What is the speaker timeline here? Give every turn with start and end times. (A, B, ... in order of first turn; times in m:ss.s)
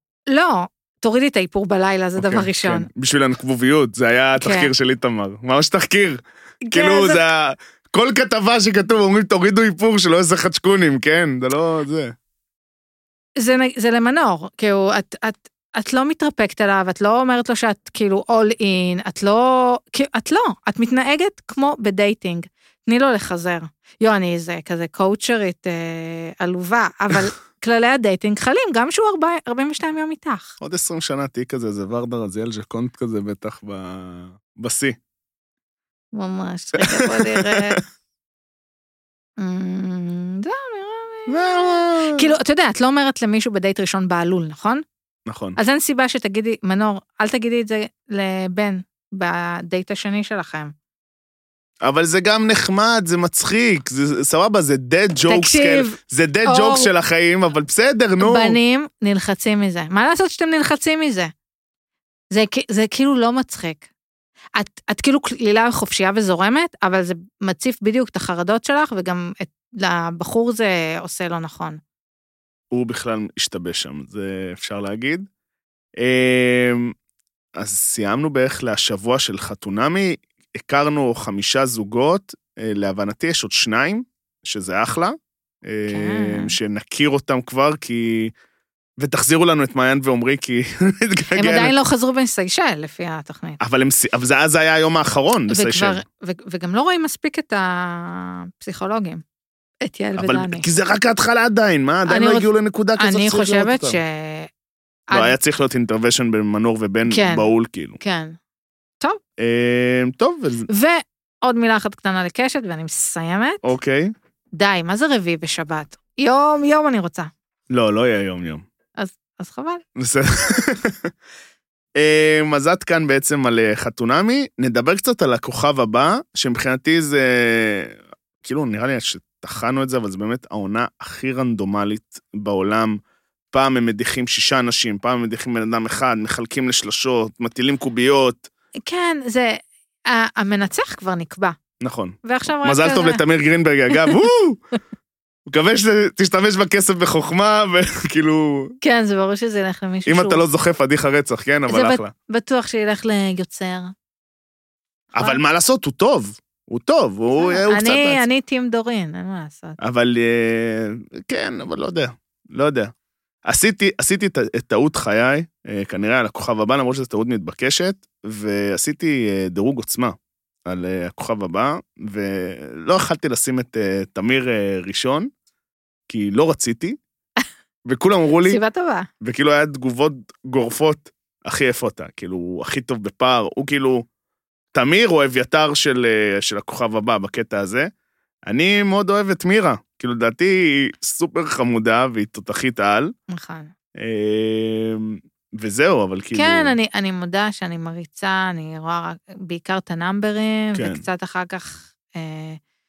0:00.3-0:02.9 A
0:02.2-0:12.1 B
0:04.4-0:04.7 A
0:06.6-0:07.2 A
0:13.4-0:30.6 A
0:30.6-0:35.0 B
0:36.1-0:37.8 A
0:36.8-0:37.8 B
0:39.4-0:44.8 A
0:41.3-0:42.3 B
0:45.3-0:45.6 B
0:45.6-0:50.7 A
0:51.8-0:58.6 B
0:55.3-0:56.9 A
0:58.2-1:01.3 A
1:02.3-1:03.8 A
1:04.6-1:11.8 A
1:12.7-1:15.2 B
1:16.0-1:16.9 B
1:17.6-1:28.3 B
1:25.9-1:26.6 A
1:29.0-1:31.7 B
1:31.4-1:33.6 A
1:33.6-1:36.0 B
1:35.5-1:39.2 A
1:39.8-1:40.6 A
1:40.2-1:44.0 B
1:42.1-1:42.5 A
1:43.0-1:44.5 A
1:45.1-1:45.3 A
1:45.1-1:48.0 B
1:47.0-1:47.5 A
1:48.0-1:48.4 A
1:49.4-1:50.7 B
1:50.7-1:53.6 A
1:53.6-1:54.1 B
1:54.5-1:57.3 A
1:57.7-1:58.6 B
1:59.0-1:59.8 A
2:00.0-2:01.1 B
2:02.0-2:13.0 B
2:13.5-2:18.5 B
2:18.8-2:21.6 A
2:21.8-2:24.6 B
2:22.2-2:23.2 A
2:23.9-2:24.2 A
2:25.5-2:28.8 B
2:28.8-2:30.4 A
2:30.0-2:32.1 B
2:31.7-2:33.9 A
2:35.1-2:38.2 B
2:37.4-2:39.8 A
2:39.8-2:42.9 B
2:43.4-2:55.3 B
2:56.1-2:57.0 B
2:57.8-2:58.6 B
2:58.4-2:59.1 A
2:59.2-3:04.0 B
3:04.7-3:07.9 B
3:08.5-3:13.1 B
3:13.3-3:13.7 A
3:14.0-3:16.7 B
3:16.3-3:22.6 A
3:20.7-3:21.0 B